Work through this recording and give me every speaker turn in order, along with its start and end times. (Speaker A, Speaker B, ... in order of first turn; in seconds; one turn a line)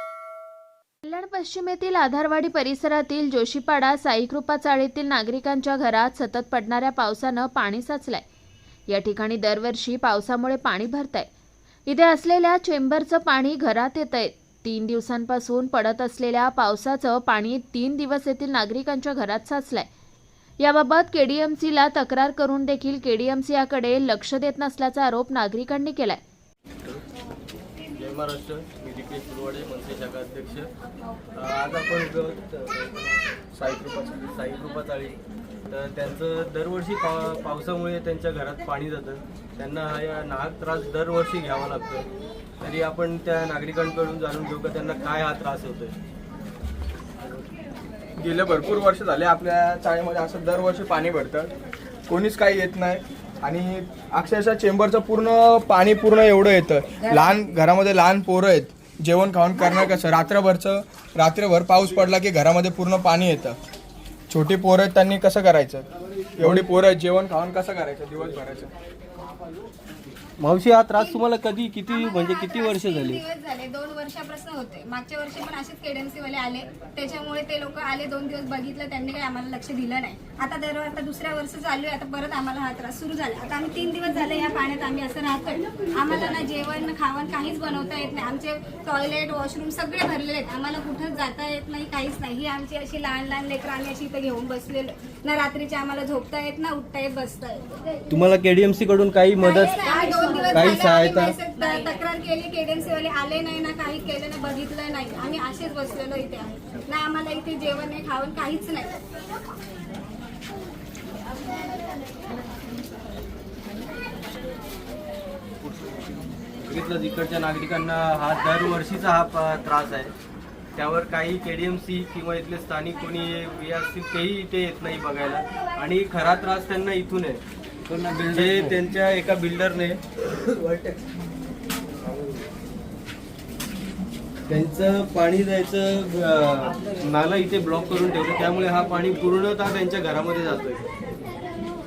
Speaker A: 1.0-8.2
Speaker A: 8.9-11.3
Speaker A: 11.9-19.9
Speaker A: 20.6-26.2
Speaker B: 27.9-30.7
Speaker B: 31.4-33.2
Speaker C: 33.5-34.2
Speaker B: 34.3-42.1
Speaker B: 42.6-46.0
Speaker C: 48.2-51.5
Speaker C: 52.1-63.6
Speaker C: 64.3-68.7
Speaker B: 70.4-73.2
Speaker D: 71.0-71.2
Speaker D: 71.9-97.8
Speaker B: 98.1-99.8
Speaker D: 99.4-109.0
Speaker B: 100.5-101.4
Speaker B: 116.6-120.1
Speaker B: 120.8-127.4
Speaker B: 128.2-131.0
Speaker B: 132.1-132.3
Speaker B: 134.5-140.8